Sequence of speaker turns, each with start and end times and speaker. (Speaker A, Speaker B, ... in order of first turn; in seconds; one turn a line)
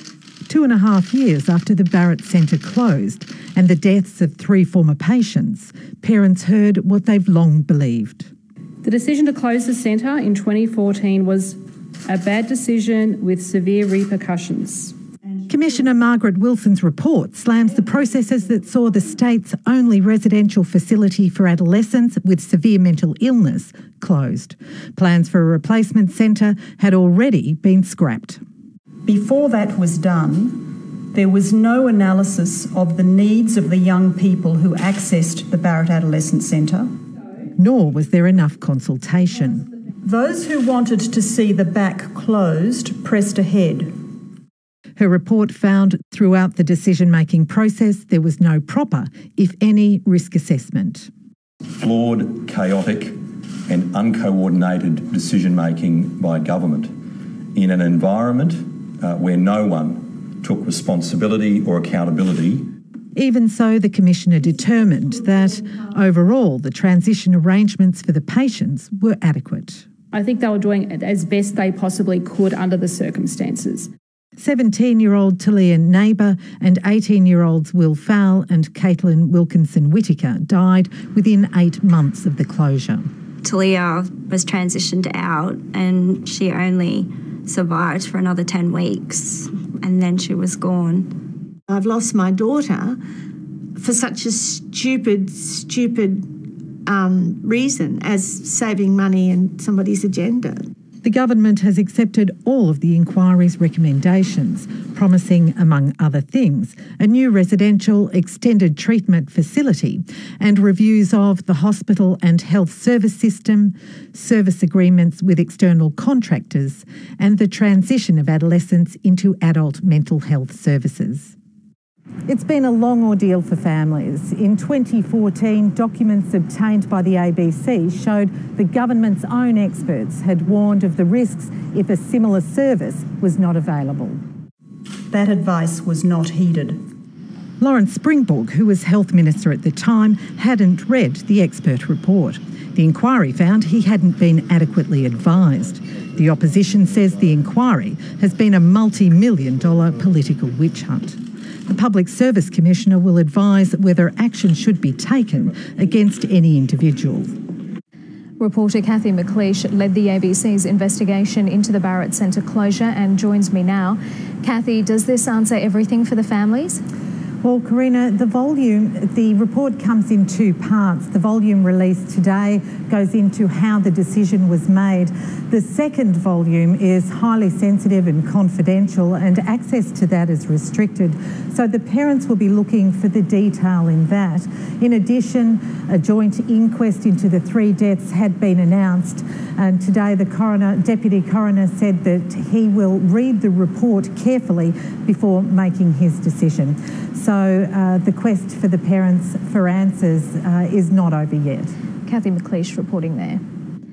Speaker A: 0.5-8.3
Speaker B: 8.8-14.9
Speaker A: 15.5-28.4
Speaker C: 29.0-36.9
Speaker A: 37.5-39.6
Speaker C: 40.0-43.9
Speaker A: 45.0-51.1
Speaker D: 51.8-56.9
Speaker D: 57.5-62.7
Speaker A: 63.1-69.8
Speaker B: 70.1-73.9
Speaker A: 74.4-83.0
Speaker E: 83.4-91.1
Speaker F: 91.7-93.0
Speaker F: 93.8-100.7
Speaker A: 101.0-121.3
Speaker A: 122.3-134.2
Speaker C: 135.1-136.8
Speaker A: 137.6-157.3
Speaker G: 158.4-166.8
Speaker A: 167.4-201.7
Speaker G: 202.1-203.4